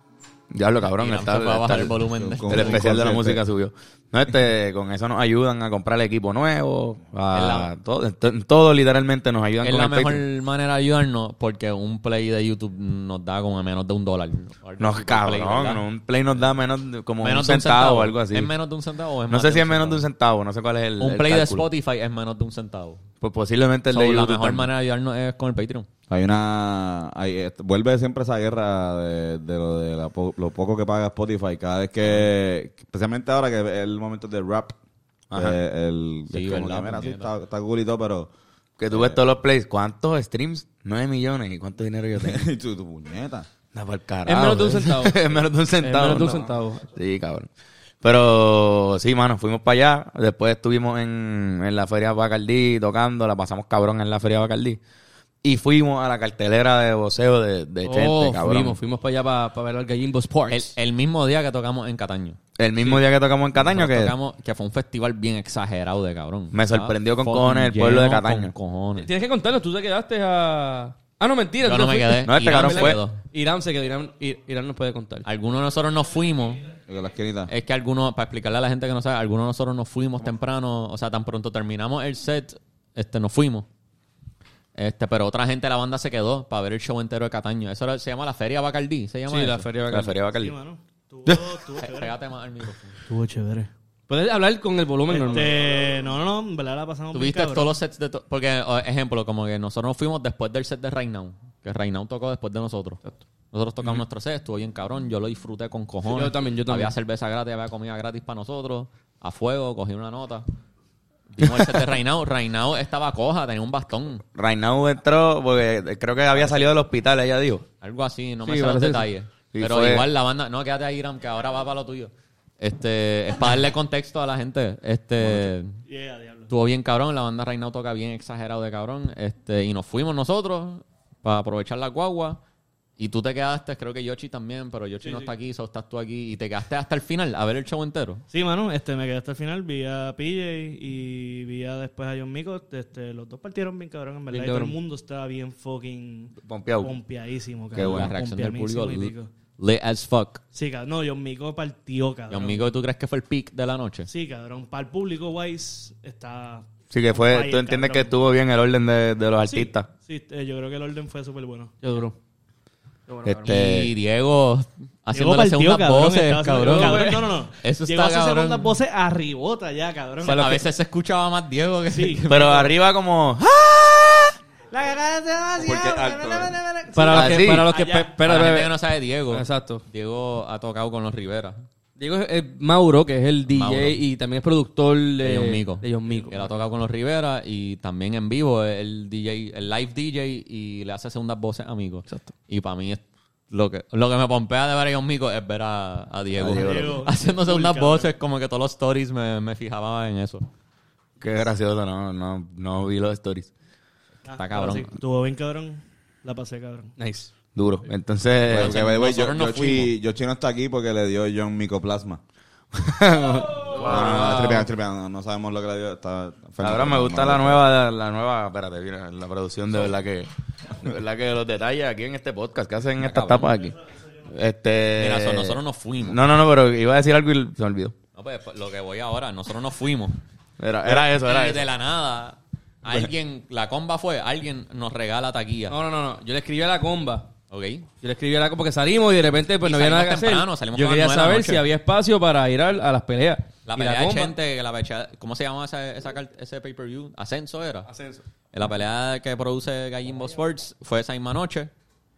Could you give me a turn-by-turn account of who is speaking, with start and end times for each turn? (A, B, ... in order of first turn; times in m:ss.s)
0:00.5-0:10.2 A
0:00.8-0:02.9 B
0:02.2-0:03.4 C
0:07.3-0:07.7 B
0:09.6-0:15.8 B
0:14.8-0:18.5 A
0:17.2-0:20.0 B
0:19.3-0:21.6 A
0:21.0-0:23.0 B
0:23.2-0:24.7 A
0:23.9-0:25.9 B
0:26.1-0:34.8 C
0:35.3-0:35.6 A
0:35.3-0:38.3 C
0:36.3-0:37.3 B
0:38.8-0:42.5 A
0:38.9-0:39.2 C
0:42.2-0:43.5 C
0:43.7-0:47.5 A
0:44.2-0:46.8 D
0:48.0-0:54.8 A
0:55.4-0:58.8 A
0:57.8-1:00.7 D
1:00.5-1:03.0 B
1:02.6-1:04.1 A
1:03.6-1:09.1 B
1:06.5-1:08.5 A
1:09.0-1:15.2 D
1:11.6-1:13.2 B
1:12.2-1:13.0 A
1:15.2-1:16.7 B
1:16.9-1:17.5 C
1:17.5-1:23.7 B
1:24.8-1:29.7 B
1:29.3-1:30.2 D
1:29.9-1:30.5 A
1:30.3-1:32.2 E
1:31.2-1:31.5 A
1:31.8-1:33.0 B
1:33.1-1:33.7 E
1:34.1-1:35.6 D
1:35.1-1:37.7 E
1:37.1-1:50.4 B
1:46.1-1:46.9 D
1:51.3-1:54.2 B
1:51.4-1:51.7 A
1:54.3-1:57.6 A
1:57.8-2:05.8 B
1:58.4-1:59.1 D
1:59.5-2:00.1 A
2:05.9-2:06.5 E
2:06.5-2:12.4 B
2:13.0-2:18.2 B
2:15.0-2:15.3 E
2:18.3-2:29.3 E
2:24.3-2:24.8 D
2:26.4-2:26.9 A
2:27.7-2:30.4 B
2:27.7-2:28.1 C
2:30.5-2:32.6 E
2:32.3-2:34.1 B
2:34.0-2:38.4 E
2:36.9-2:39.9 A
2:39.4-2:41.7 E
2:41.8-2:42.1 D
2:43.1-2:43.7 E
2:43.2-2:43.9 A
2:43.4-2:48.7 B
2:45.1-2:50.6 E
2:46.6-2:47.3 D
2:50.2-2:50.6 D
2:50.2-2:52.7 B
2:51.9-2:52.7 E
2:52.3-2:54.3 A
2:54.7-2:58.2 E
2:55.6-2:56.6 C
2:56.9-2:58.7 D
2:57.1-2:57.7 A
2:58.2-3:01.6 B
2:59.3-2:59.8 D
3:02.0-3:06.4 D
3:03.5-3:04.0 B
3:05.2-3:20.5 B
3:16.4-3:17.0 A
3:16.4-3:18.1 E
3:21.2-3:23.5 A
3:24.3-3:26.9 E
3:24.3-3:25.0 B
3:27.0-3:27.3 D
3:27.6-3:28.7 A
3:28.5-3:29.9 B
3:28.5-3:32.2 C
3:32.8-3:37.7 C
3:33.7-3:34.7 D
3:33.8-3:34.5 A
3:36.6-3:47.9 A
3:43.0-3:43.4 C
3:45.0-3:46.3 B
3:48.1-3:50.2 B
3:50.6-3:51.6 A
3:50.8-3:55.7 B
3:55.7-3:57.3 D
3:57.5-3:57.9 B
3:58.0-4:04.3 D
3:59.6-4:01.7 B
4:03.6-4:07.9 B
4:07.9-4:08.2 D
4:08.5-4:11.7 B